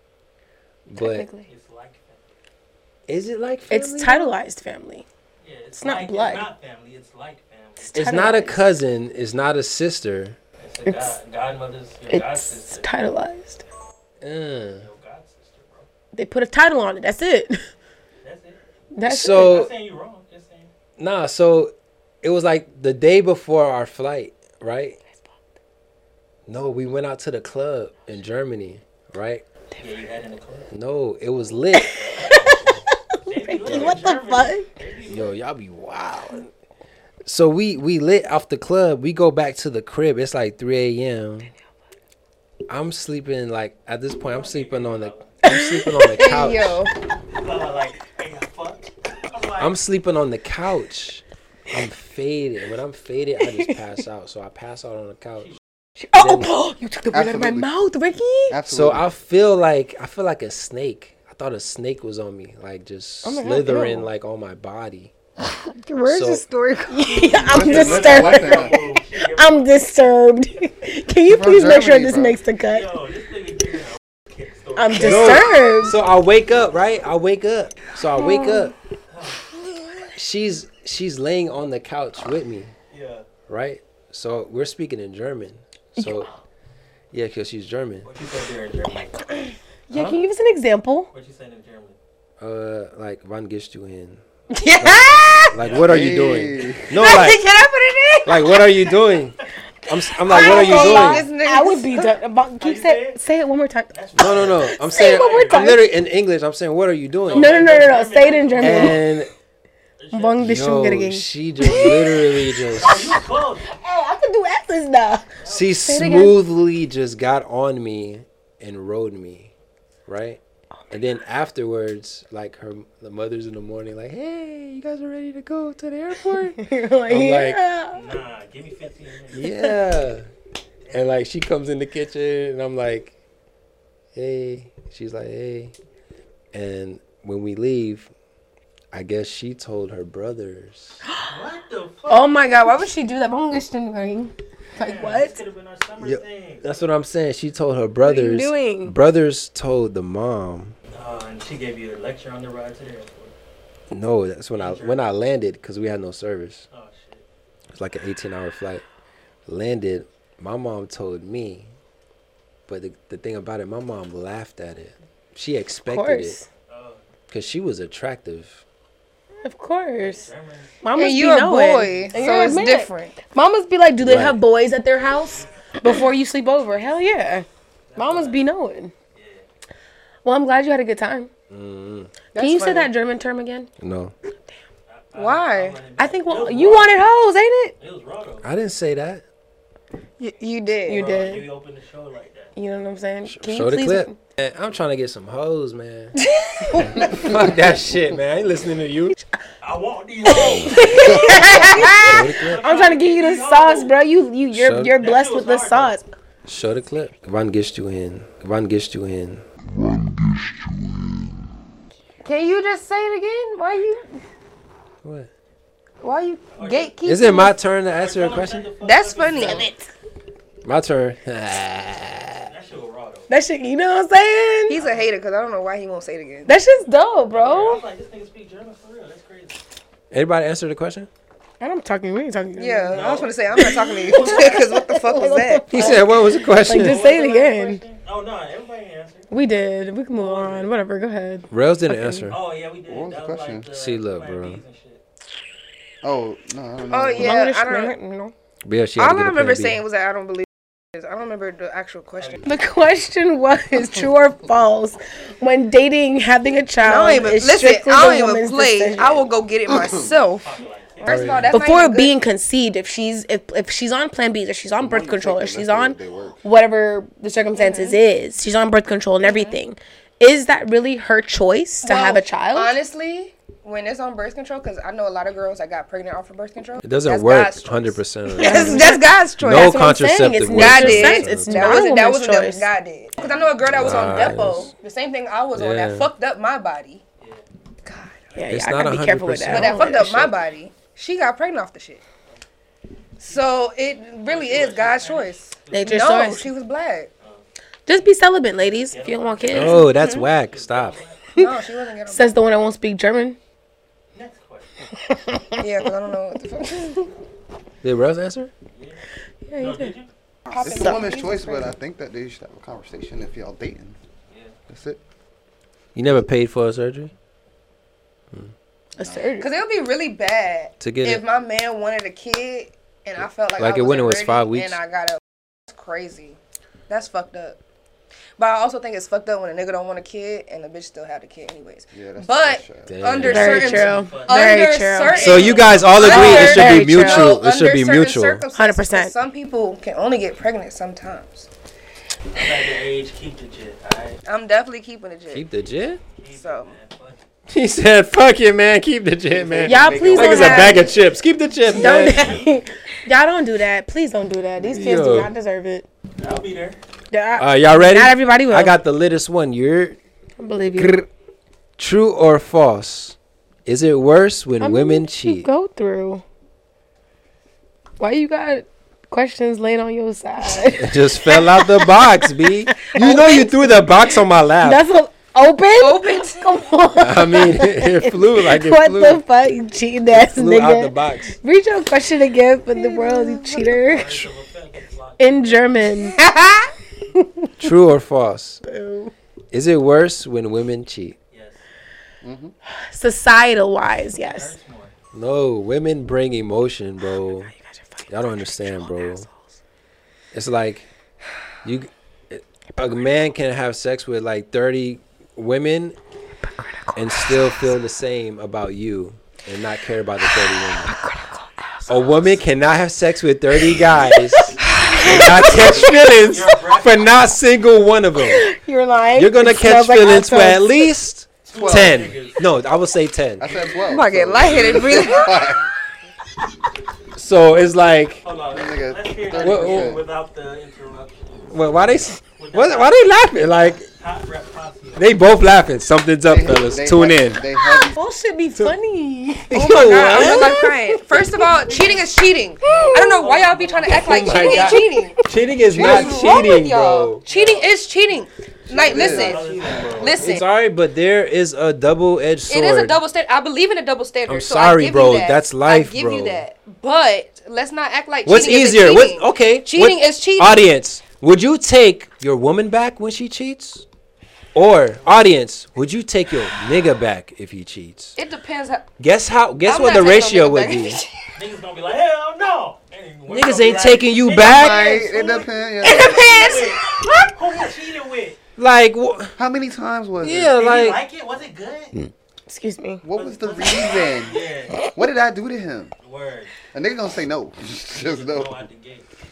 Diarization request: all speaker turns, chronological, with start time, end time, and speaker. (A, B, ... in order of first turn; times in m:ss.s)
0:00.9-0:01.3 A
0:01.0-0:01.5 B
0:01.5-0:02.3 C
0:03.1-0:04.3 A
0:03.7-0:05.0 B
0:05.4-0:08.0 C
0:05.8-0:06.5 B
0:07.8-0:08.6 B
0:07.9-0:10.4 A
0:10.6-0:12.9 C
0:10.9-0:11.2 B
0:12.1-0:13.6 B
0:14.2-0:14.9 A
0:14.8-0:15.9 C
0:16.1-0:17.7 B
0:18.2-0:18.6 C
0:18.9-0:19.6 B
0:19.1-0:19.7 A
0:19.4-0:20.7 C
0:21.0-0:25.0 A
0:26.5-0:29.4 A
0:29.8-0:30.7 C
0:30.7-0:32.0 A
0:31.7-0:34.7 B
0:31.9-0:35.4 C
0:33.7-0:34.0 A
0:35.1-0:36.5 A
0:37.3-0:41.5 A
0:42.7-0:46.8 A
0:44.2-0:45.4 C
0:45.4-0:46.0 B
0:46.1-0:46.9 D
0:47.3-0:49.7 C
0:49.6-0:55.6 A
0:56.0-0:58.6 B
0:56.2-0:56.5 A
0:57.1-0:57.7 E
0:58.5-0:59.1 E
0:58.7-1:05.1 A
1:03.2-1:04.1 B
1:05.7-1:07.2 D
1:06.1-1:06.4 A
1:06.9-1:12.9 B
1:07.1-1:09.7 C
1:07.5-1:08.8 E
1:11.3-1:12.4 E
1:12.7-1:15.6 C
1:14.8-1:16.0 B
1:15.0-1:18.7 A
1:18.2-1:18.7 B
1:19.1-1:19.5 C
1:20.1-1:22.7 A
1:22.9-1:23.3 C
1:23.5-1:26.3 A
1:26.0-1:26.3 B
1:27.1-1:28.1 A
1:28.0-1:29.5 C
1:29.9-1:31.1 B
1:29.9-1:30.2 A
1:31.1-1:32.0 C
1:32.4-1:34.2 A
1:34.6-1:35.6 D
1:34.8-1:37.4 A
1:35.5-1:36.5 C
1:35.8-1:37.0 E
1:36.9-1:38.7 D
1:38.2-1:39.4 A
1:39.9-1:41.3 A
1:40.3-1:42.1 D
1:40.3-1:45.9 B
1:42.6-1:43.2 C
1:43.9-1:45.8 C
1:44.2-1:47.5 A
1:47.3-1:49.1 C
1:47.3-1:49.0 B
1:48.6-1:49.3 A
1:50.0-1:50.5 C
1:50.1-1:56.4 B
1:50.4-1:53.1 A
1:52.8-1:53.7 C
1:55.4-1:55.7 C
1:55.5-1:59.5 A
2:00.1-2:00.4 A
2:00.9-2:07.6 A
2:06.5-2:08.1 B
2:07.9-2:09.5 C
2:09.3-2:10.3 A
2:09.5-2:09.8 B
2:10.8-2:11.1 C
2:10.9-2:13.1 A
2:14.2-2:15.7 A
2:16.5-2:18.1 A
2:18.9-2:21.0 A
2:21.1-2:21.3 B
2:21.3-2:22.5 C
2:22.1-2:25.4 B
2:24.8-2:26.7 C
2:26.0-2:30.8 A
2:28.0-2:29.0 B
2:30.9-2:33.4 C
2:33.9-2:36.7 A
2:34.6-2:35.0 C
2:36.7-2:37.2 C
2:37.8-2:38.8 A
2:39.5-2:41.7 A
2:42.7-2:46.4 A
2:45.9-2:46.5 B
2:46.7-2:47.0 C
2:47.3-2:48.6 A
2:49.4-2:50.3 B
2:50.0-2:50.8 C
2:50.8-2:58.9 B
2:51.0-2:53.2 D
2:52.0-2:52.6 C
2:54.0-2:54.4 A
2:57.9-2:58.4 C
2:59.2-2:59.5 C
3:00.2-3:01.3 B
3:01.5-3:02.1 A
3:02.4-3:02.9 D
3:02.4-3:03.7 B
3:03.8-3:04.1 A
3:04.9-3:07.0 C
3:05.2-3:05.9 D
3:06.0-3:07.8 B
3:07.8-3:08.5 C
3:08.4-3:09.2 A
3:10.2-3:11.1 D
3:10.9-3:11.5 B
3:10.9-3:12.5 C
3:12.6-3:14.2 B
3:13.3-3:16.2 A
3:16.6-3:17.0 B
3:16.8-3:19.2 A
3:19.6-3:23.9 C
3:20.2-3:26.0 B
3:22.0-3:22.6 A
3:24.5-3:24.9 A
3:25.0-3:26.0 C
3:26.5-3:29.4 A
3:32.2-3:34.1 D
3:35.0-3:35.3 A
3:36.0-3:37.5 D
3:36.6-3:36.9 C
3:37.1-3:38.7 A
3:37.9-3:39.7 C
3:38.8-3:39.7 D
3:39.4-3:39.9 B
3:40.6-3:42.5 A
3:42.4-3:43.3 C
3:43.3-3:44.8 B
3:44.7-3:46.5 D
3:44.8-3:45.1 C
3:46.5-3:47.8 B
3:47.3-3:49.6 C
3:50.1-3:51.1 A
3:51.6-3:57.8 B
3:52.6-3:55.8 D
3:52.9-3:54.6 C
3:55.7-3:57.0 A
3:56.7-3:59.3 C
3:59.3-4:02.3 B
4:00.2-4:00.7 C
4:01.5-4:02.4 A
4:02.3-4:05.0 C
4:02.9-4:03.7 E
4:03.7-4:04.6 A
4:06.0-4:07.4 E
4:06.9-4:07.9 D
4:07.2-4:08.3 B
4:08.6-4:09.8 A
4:09.0-4:12.4 D
4:12.2-4:12.4 C
4:12.4-4:19.3 B
4:16.8-4:22.1 D
4:19.7-4:20.1 E
4:20.4-4:21.6 C
4:21.1-4:21.5 A
4:21.5-4:32.8 B
4:24.8-4:26.4 E
4:27.6-4:28.0 D
4:29.2-4:29.6 D
4:31.8-4:39.8 D
4:36.8-4:41.8 A
4:38.4-4:42.7 B
4:40.5-4:47.0 D
4:43.2-4:44.2 C
4:43.7-4:44.7 A
4:45.6-4:46.1 A
4:47.8-4:48.2 D
4:48.4-4:50.2 B
4:48.5-4:50.4 A
4:49.5-4:52.0 D
4:53.2-4:57.1 D
4:54.3-4:56.2 C
4:55.7-4:56.5 B
4:57.2-5:01.3 C
4:57.9-4:59.9 B
4:59.5-5:01.0 A
4:59.9-5:00.3 D
5:01.4-5:02.4 D
5:02.1-5:03.4 B
5:04.1-5:04.7 C
5:05.0-5:05.6 B
5:05.6-5:07.1 D
5:07.8-5:08.5 A
5:08.7-5:09.0 C
5:09.5-5:09.9 B
5:09.6-5:10.1 C
5:10.5-5:11.7 D
5:10.6-5:11.2 B
5:10.6-5:14.0 E
5:14.3-5:14.6 C
5:14.7-5:15.0 E
5:16.0-5:17.1 A
5:19.0-5:19.5 B
5:19.4-5:27.6 D
5:20.8-5:21.2 A
5:23.6-5:24.8 A
5:28.4-5:41.5 D
5:31.9-5:32.9 E
5:32.9-5:33.9 A
5:33.2-5:37.4 B
5:33.4-5:36.6 C
5:35.2-5:38.4 A
5:38.5-5:39.2 B
5:42.3-5:44.2 C
5:44.2-5:45.5 D
5:45.3-5:46.0 A
5:46.2-5:47.2 C
5:46.3-5:46.8 D
5:47.5-5:52.3 A
5:49.3-5:50.9 E
5:49.6-5:50.9 B
5:50.2-5:50.8 D
5:51.7-5:55.9 B
5:51.7-5:52.6 C
5:54.6-5:55.3 A
5:56.2-5:56.8 C
5:57.1-5:58.8 B
5:57.4-6:00.0 A
6:00.4-6:01.1 B
6:01.8-6:05.5 A
6:04.6-6:06.2 B
6:08.0-6:24.3 B
6:10.8-6:14.8 A
6:15.8-6:16.5 D
6:17.0-6:19.2 A
6:20.1-6:21.4 A
6:22.7-6:23.7 D
6:23.7-6:25.9 C
6:25.2-6:26.2 B
6:26.1-6:26.7 D
6:27.1-6:27.5 B
6:27.6-6:28.6 A
6:28.6-6:29.1 B
6:29.5-6:31.2 A
6:31.3-6:31.6 C
6:32.2-6:32.6 E
6:32.9-6:34.5 B
6:34.1-6:34.9 C
6:35.1-6:37.5 A
6:37.7-6:39.3 B
6:38.1-6:39.3 A
6:40.3-6:40.9 A
6:41.6-6:46.0 A
6:46.8-6:47.7 B
6:47.0-6:51.0 A
6:50.2-6:52.4 B
6:51.9-6:58.5 A
6:53.6-6:55.8 B
6:54.7-6:55.2 D
6:56.2-6:57.2 C
6:58.2-7:00.9 B
6:59.2-7:03.5 A
7:01.4-7:02.5 C
7:01.5-7:02.1 E
7:03.4-7:05.7 E
7:03.8-7:05.3 D
7:07.2-7:08.2 A
7:08.2-7:11.5 C
7:08.5-7:10.0 E
7:09.4-7:09.9 A
7:11.5-7:13.9 A
7:12.4-7:13.0 C
7:13.9-7:15.2 C
7:15.0-7:17.4 A
7:16.3-7:18.0 E
7:17.6-7:21.7 B
7:19.5-7:20.7 A
7:19.5-7:25.2 D
7:21.5-7:24.9 C
7:22.6-7:23.2 B
7:23.8-7:27.2 A
7:25.7-7:26.3 E
7:25.8-7:30.5 D
7:27.3-7:27.7 C
7:28.7-7:29.8 E
7:28.8-7:30.2 C
7:30.2-7:33.0 A
7:32.5-7:40.6 D
7:34.3-7:36.4 A
7:38.3-7:43.8 A
7:44.6-7:48.2 A
7:48.2-7:48.9 D
7:49.0-7:51.0 A
7:49.6-7:51.1 D
7:51.4-7:58.4 C
7:53.3-7:54.9 A
7:54.4-7:56.3 E
7:55.8-7:57.3 D
7:58.6-7:59.4 A
7:59.4-8:00.5 E
8:00.2-8:01.0 A
8:00.6-8:02.0 C
8:02.0-8:03.0 B
8:03.0-8:04.4 E
8:03.2-8:04.8 C
8:04.9-8:05.9 E
8:06.0-8:06.5 C
8:06.7-8:08.6 E
8:07.9-8:09.1 C